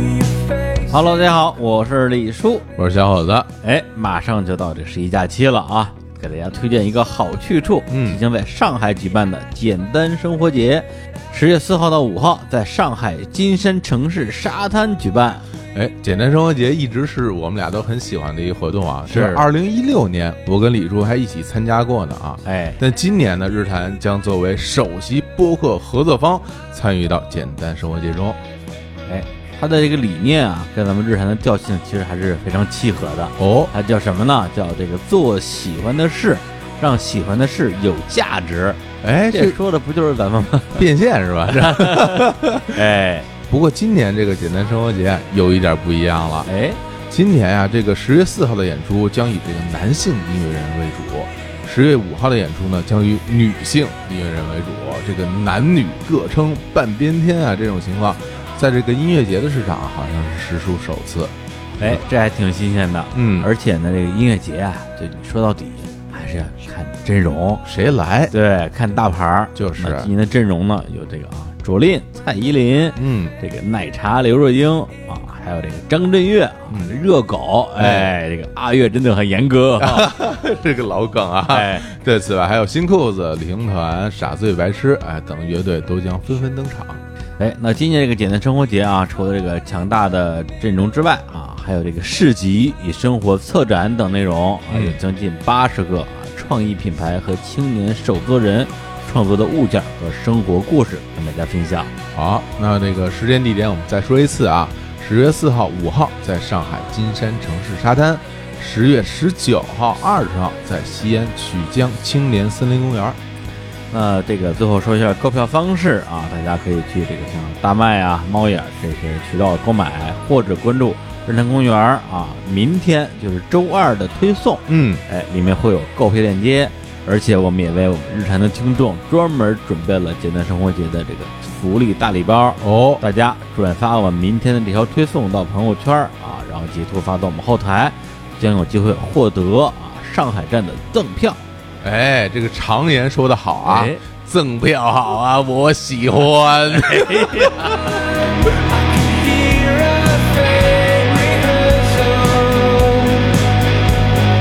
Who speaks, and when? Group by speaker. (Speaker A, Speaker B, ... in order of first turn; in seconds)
Speaker A: 0.3-0.7, 2.8-3.5, 7.9-8.2, 15.7-28.4, 33.4-33.7, 39.0-39.6, 40.7-42.8, 43.5-46.5, 47.1-61.3, 63.1-63.5, 67.6-68.3, 69.5-70.1, 73.0-73.3, 76.7-77.0, 77.8-78.1, 79.8-87.0, 94.7-95.0, 102.1-113.2, 124.7-125.0, 132.6-133.0, 141.8-148.0
Speaker B: 0.8-2.7, 3.6-15.4, 19.1-19.5, 22.4-22.8, 29.1-40.9, 41.5-43.3, 46.5-46.8, 61.8-67.6, 68.3-80.1, 81.5-81.9, 87.4-101.9, 113.9-141.4, 143.7-144.0, 146.7-147.7
Speaker C: 149.0-153.1